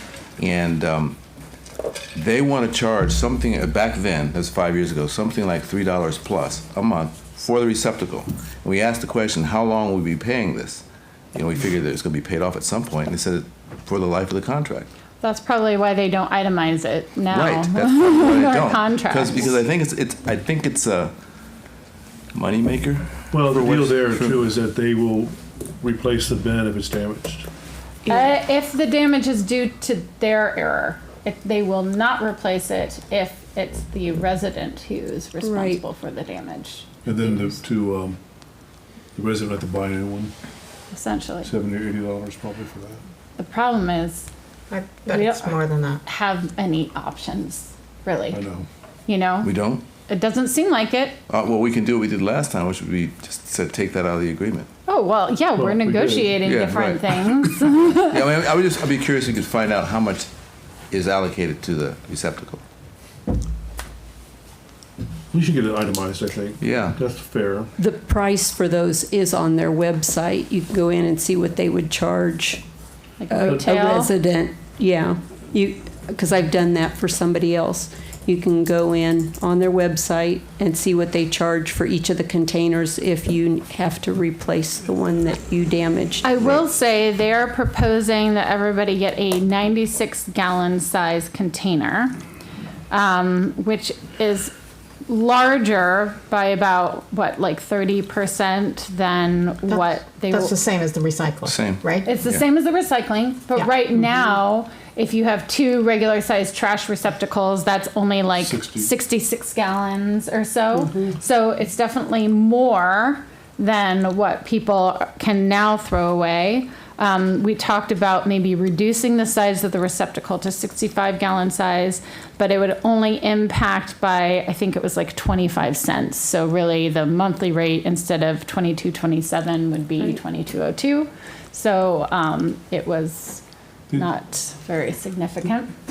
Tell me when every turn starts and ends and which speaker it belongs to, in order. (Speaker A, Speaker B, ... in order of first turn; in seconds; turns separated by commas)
Speaker A: 0.4-1.2, Speaker A: 2.1-14.9, Speaker B: 15.2-19.6, Speaker A: 17.3-21.1, Speaker A: 22.3-24.4, Speaker C: 23.3-27.5, Speaker B: 28.1-36.9, Speaker D: 35.4-35.8, Speaker C: 37.0-38.2, Speaker C: 39.1-40.3, Speaker B: 40.9-41.5, Speaker C: 41.4-43.0, Speaker B: 43.4-44.3, Speaker E: 44.7-46.0, Speaker B: 45.1-48.4, Speaker C: 48.3-48.7, Speaker B: 49.1-49.5, Speaker A: 49.4-49.8, Speaker B: 50.1-51.2, Speaker A: 51.3-54.7, Speaker B: 54.9-58.2, Speaker C: 55.5-56.4, Speaker A: 56.4-60.3, Speaker A: 60.9-62.6, Speaker C: 65.3-67.7, Speaker A: 66.6-67.0, Speaker D: 67.8-72.6, Speaker B: 73.2-74.1, Speaker D: 73.3-86.2, Speaker B: 86.2-92.1, Speaker B: 92.9-94.5, Speaker B: 95.1-100.5, Speaker E: 99.7-102.1, Speaker A: 101.4-102.4, Speaker B: 102.0-133.4, Speaker C: 108.4-108.9, Speaker B: 133.9-135.7